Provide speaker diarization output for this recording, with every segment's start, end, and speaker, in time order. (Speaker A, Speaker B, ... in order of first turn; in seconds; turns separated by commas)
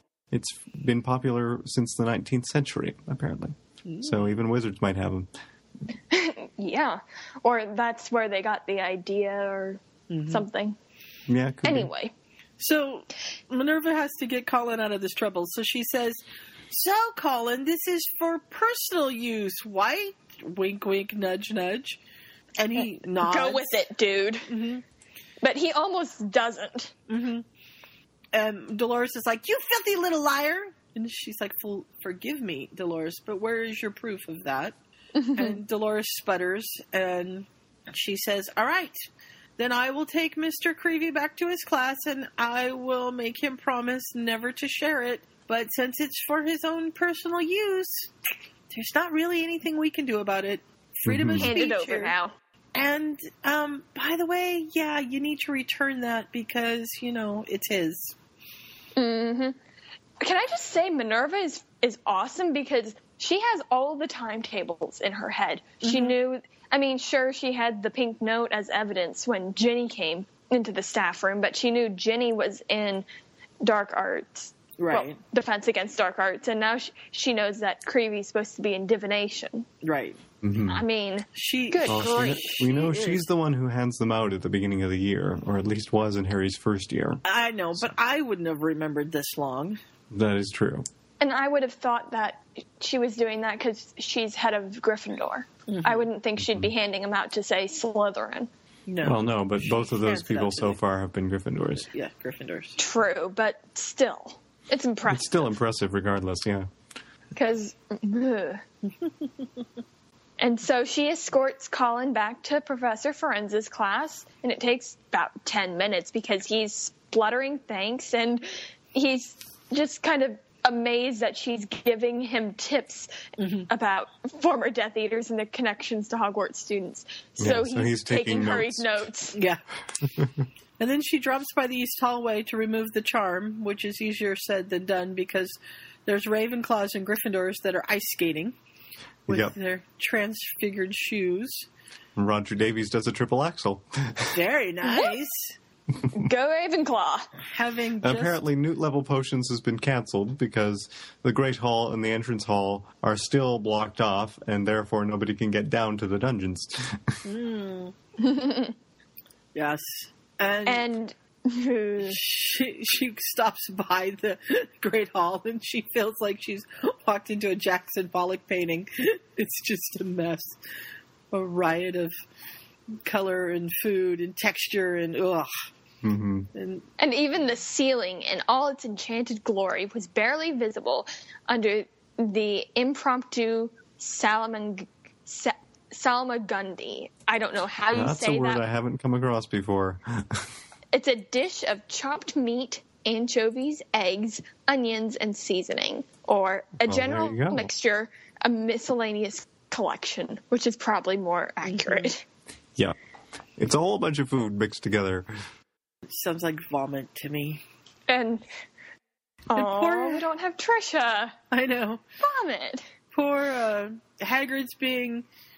Speaker A: 0.3-5.3, Speaker B: 3.9-4.4, Speaker C: 6.1-10.8, Speaker B: 10.1-10.4, Speaker A: 11.3-11.9, Speaker C: 11.6-12.1, Speaker B: 12.6-22.0, Speaker B: 22.6-23.7, Speaker C: 23.2-24.5, Speaker B: 24.5-24.8, Speaker C: 25.4-26.9, Speaker B: 27.1-27.4, Speaker B: 28.3-34.8, Speaker C: 35.2-35.6, Speaker B: 35.4-39.0, Speaker B: 39.6-48.1, Speaker B: 48.7-52.1, Speaker A: 51.1-51.5, Speaker C: 51.4-52.3, Speaker B: 52.8-58.1, Speaker C: 59.0-59.6, Speaker C: 60.2-73.1, Speaker B: 65.8-66.2, Speaker C: 73.6-79.7, Speaker B: 74.8-75.2, Speaker B: 79.8-80.2, Speaker A: 80.4-80.8, Speaker C: 80.7-82.3, Speaker B: 81.3-83.2, Speaker A: 81.9-87.2, Speaker B: 87.2-89.8, Speaker A: 90.1-90.9, Speaker C: 91.2-98.5, Speaker B: 95.7-96.1, Speaker A: 96.4-96.7, Speaker B: 98.9-100.8, Speaker A: 99.0-101.9, Speaker B: 101.9-102.8, Speaker C: 102.8-105.5, Speaker A: 105.1-106.7, Speaker C: 107.3-108.6, Speaker C: 110.4-123.1, Speaker B: 123.4-123.7, Speaker C: 123.7-129.4, Speaker A: 127.4-128.9, Speaker B: 129.3-129.6, Speaker A: 130.0-130.5, Speaker B: 130.8-138.6, Speaker A: 139.3-139.6, Speaker B: 139.3-141.7, Speaker A: 142.2-144.4, Speaker B: 144.3-145.6, Speaker C: 144.8-145.1, Speaker C: 146.1-147.3, Speaker B: 147.5-148.3, Speaker A: 148.0-157.2, Speaker B: 157.2-157.9, Speaker C: 158.2-158.8, Speaker B: 159.6-160.9, Speaker C: 160.7-162.2, Speaker B: 162.0-170.6, Speaker B: 171.3-172.2, Speaker B: 173.0-175.5, Speaker A: 176.0-176.5, Speaker B: 176.6-176.8, Speaker C: 177.0-188.6, Speaker A: 187.9-190.5, Speaker C: 190.9-202.2, Speaker A: 196.8-197.7, Speaker B: 201.7-202.1, Speaker A: 203.6-205.3, Speaker B: 206.1-207.6, Speaker C: 208.1-208.4, Speaker C: 209.5-211.3, Speaker B: 209.6-210.3, Speaker B: 211.5-212.0, Speaker C: 212.2-212.9, Speaker B: 213.1-215.3